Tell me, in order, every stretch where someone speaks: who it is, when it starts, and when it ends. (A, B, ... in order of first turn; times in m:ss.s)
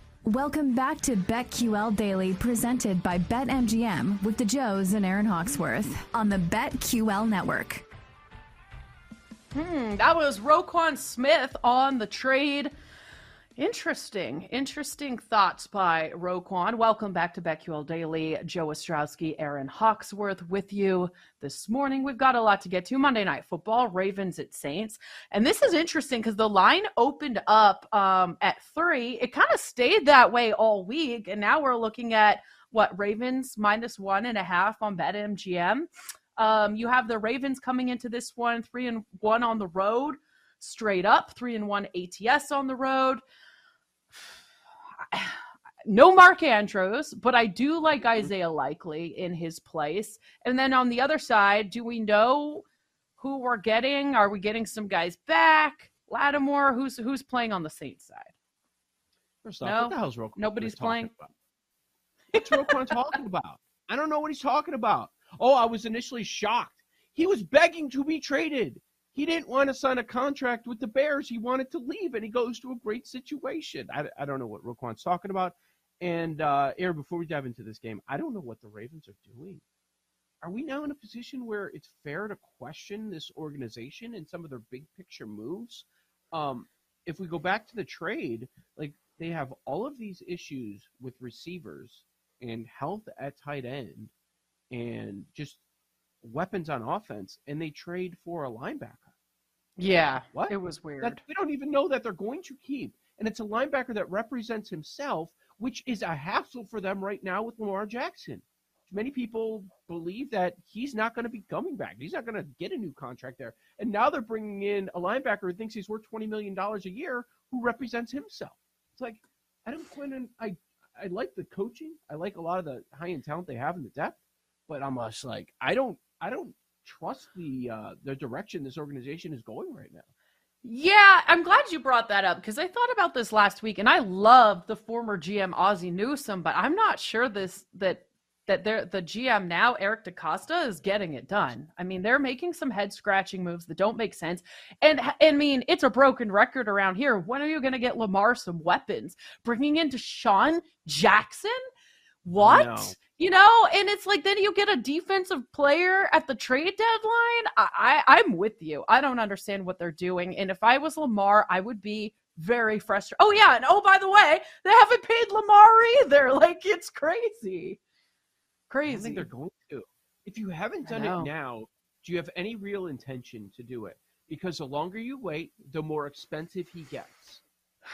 0:00.3-0:07.8 A
0:09.5-0:12.7 B
0:13.6-0:43.2 B
0:45.0-0:52.6 B
0:53.2-0:58.3 B
0:59.4-1:01.3 C
0:59.6-1:01.1 B
1:02.3-1:02.7 B
1:02.4-1:19.6 C
1:20.4-1:34.1 C
1:34.7-1:35.6 C
1:36.2-1:39.1 C
1:39.8-1:41.2 B
1:40.3-2:10.1 C
2:10.6-2:31.6 B
2:32.2-2:47.8 B
2:32.4-2:33.0 C
2:48.7-2:49.3 B
2:48.9-2:57.4 C
2:50.8-2:51.3 B